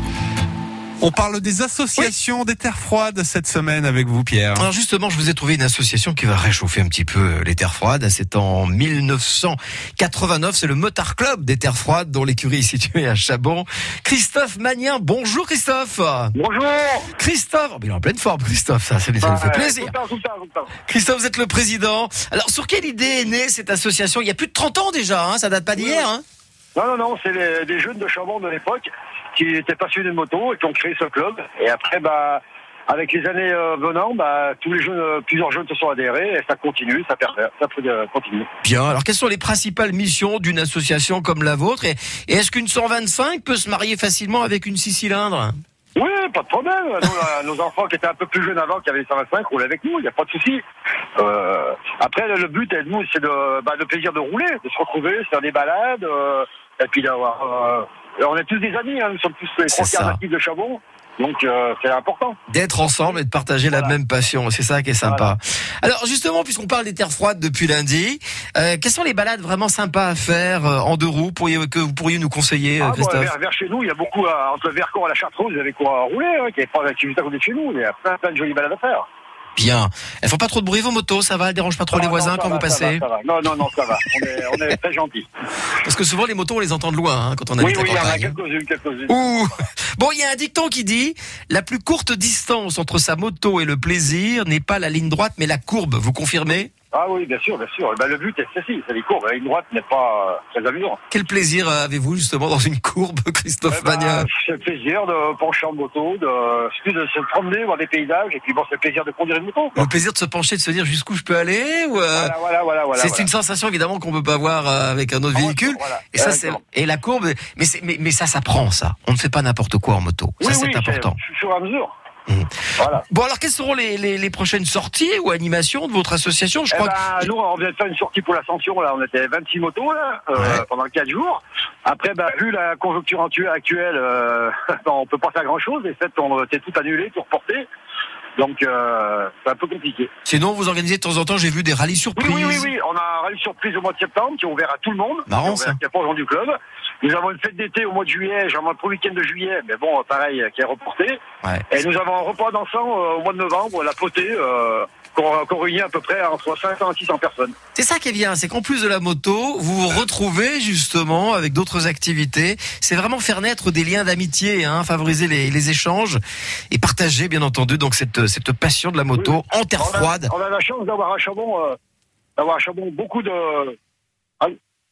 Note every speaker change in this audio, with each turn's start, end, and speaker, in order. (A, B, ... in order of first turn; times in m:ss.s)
0:01.0-0:04.7 A
0:04.6-0:16.3 B
0:16.4-0:17.1 C
0:17.1-0:19.9 B
0:19.2-0:20.8 C
0:20.8-0:26.2 B
0:25.8-0:26.1 C
0:26.8-0:38.5 C
0:38.6-0:45.6 B
0:46.0-0:50.6 C
0:51.2-1:02.4 C
0:59.7-1:00.2 B
1:02.5-1:13.3 B
1:03.7-1:04.0 C
1:05.0-1:05.3 C
1:12.8-1:19.1 C
1:19.6-1:23.0 B
1:21.9-1:25.3 C
1:25.8-1:28.4 B
1:27.6-1:29.7 C
1:29.1-1:36.7 B
1:36.9-1:41.0 C
1:41.1-1:44.3 B
1:43.7-1:49.9 C
1:49.8-1:52.3 B
1:52.1-1:53.3 C
1:53.0-2:01.2 B
1:55.4-1:56.6 C
2:00.4-2:01.9 C
2:02.8-2:03.0 C
2:03.1-2:07.3 B
2:06.7-2:17.7 C
2:10.4-2:10.6 B
2:18.4-2:20.1 C
2:20.2-2:22.7 B
2:22.2-2:31.2 C
2:25.3-2:25.8 B
2:31.7-2:37.6 C
2:37.8-2:46.2 B
2:46.7-2:50.3 B
2:49.2-2:51.8 C
2:52.4-2:53.8 C